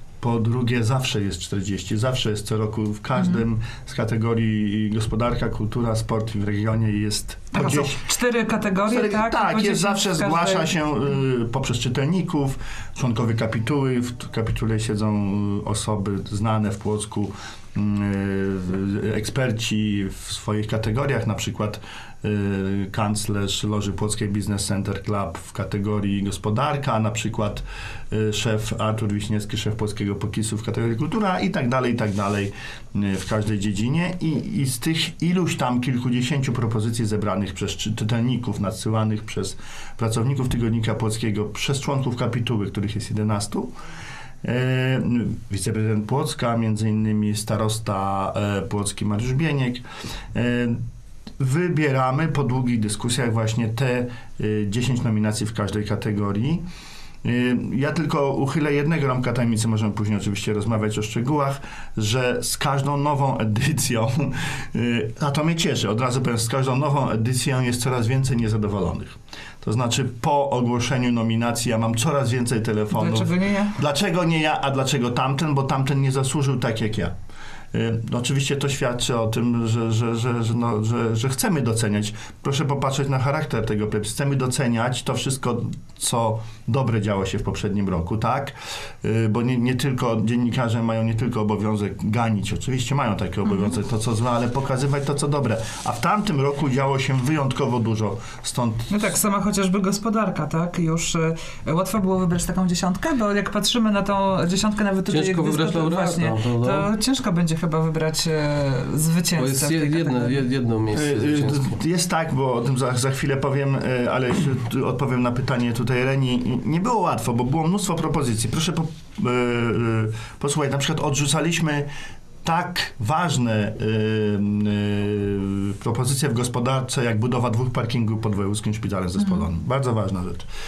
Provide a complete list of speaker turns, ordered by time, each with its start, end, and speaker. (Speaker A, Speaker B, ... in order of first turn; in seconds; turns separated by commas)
Speaker A: 0.2-8.1, Speaker B: 7.5-10.7, Speaker A: 8.9-43.7, Speaker A: 44.4-49.8, Speaker A: 50.3-50.8, Speaker A: 51.4-56.6, Speaker A: 57.2-77.1, Speaker B: 72.9-73.8, Speaker A: 77.7-99.1, Speaker B: 98.9-110.4, Speaker C: 105.1-106.9, Speaker C: 109.4-111.7, Speaker A: 110.9-121.9, Speaker A: 122.4-130.4